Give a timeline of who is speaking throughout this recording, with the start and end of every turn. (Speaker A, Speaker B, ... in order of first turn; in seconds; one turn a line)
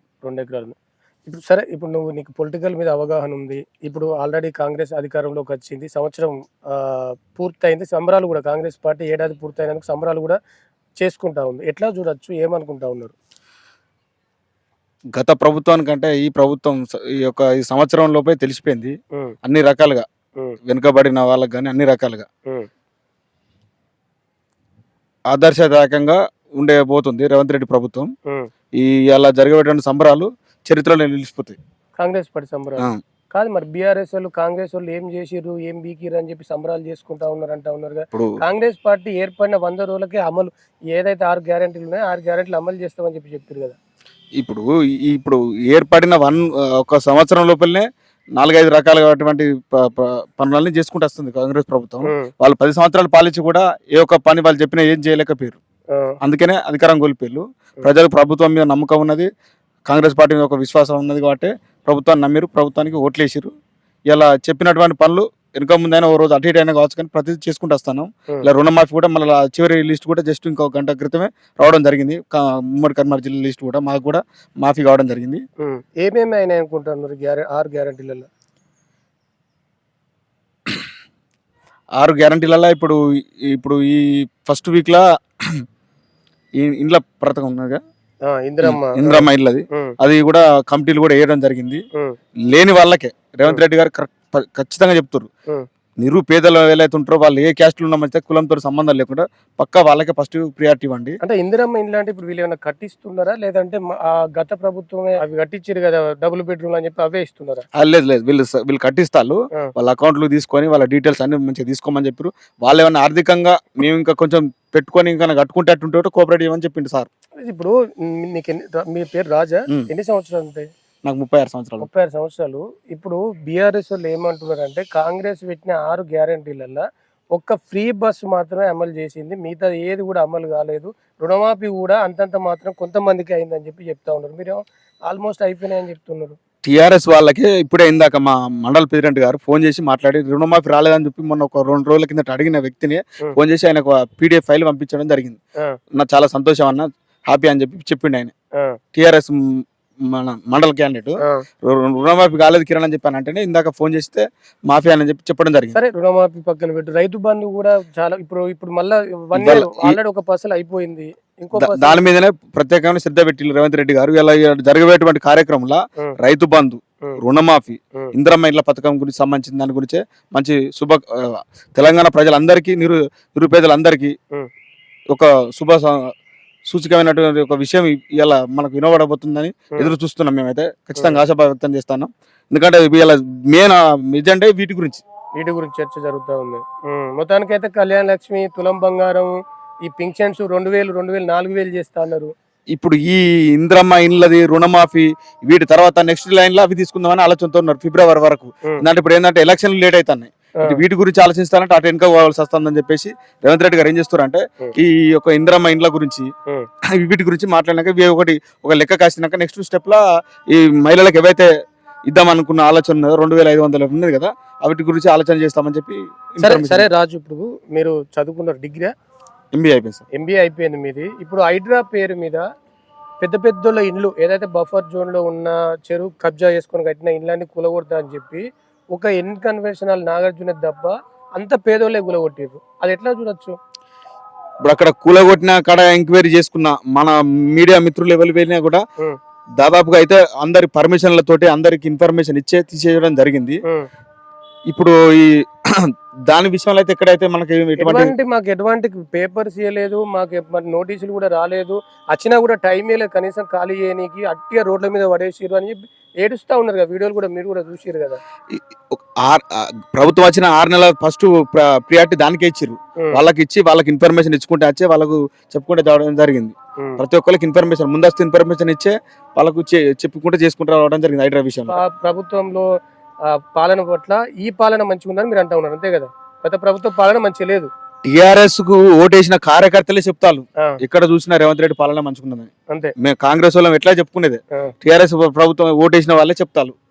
Speaker A: 0.2-0.7
Speaker A: 1.2-10.4
Speaker A: 11.0-13.1
Speaker B: 15.1-20.0
Speaker B: 20.7-22.2
Speaker B: 25.3-28.1
Speaker B: 28.8-31.6
Speaker A: 32.0-43.8
Speaker B: 44.4-55.6
Speaker B: 56.2-59.3
Speaker B: 59.9-63.5
Speaker B: 64.1-75.4
Speaker A: 75.6-78.3
Speaker B: 82.0-85.6
Speaker B: 86.6-87.8
Speaker A: 88.3-89.9
Speaker B: 88.6-91.8
Speaker B: 92.5-95.3
Speaker B: 96.0-101.2
Speaker A: 101.2-107.6
Speaker B: 107.8-117.1
Speaker A: 117.4-120.7
Speaker B: 121.0-121.9
Speaker A: 121.8-136.4
Speaker B: 136.6-145.4
Speaker B: 145.9-148.3
Speaker B: 148.9-155.8
Speaker A: 155.7-162.0
Speaker B: 159.3-160.0
Speaker B: 161.6-174.1
Speaker B: 175.1-176.1
Speaker B: 176.7-185.0
Speaker A: 185.4-189.3
Speaker A: 189.8-192.3
Speaker B: 192.7-206.3
Speaker B: 206.9-211.5
Speaker B: 212.1-216.9
Speaker A: 216.4-218.9
Speaker B: 219.5-220.0
Speaker A: 220.2-222.4
Speaker A: 223.2-233.6
Speaker B: 234.6-238.8
Speaker B: 239.6-243.6
Speaker B: 244.7-248.1
Speaker A: 247.8-258.2
Speaker B: 258.5-271.8
Speaker A: 271.7-272.6
Speaker A: 273.3-277.7
Speaker B: 278.0-286.7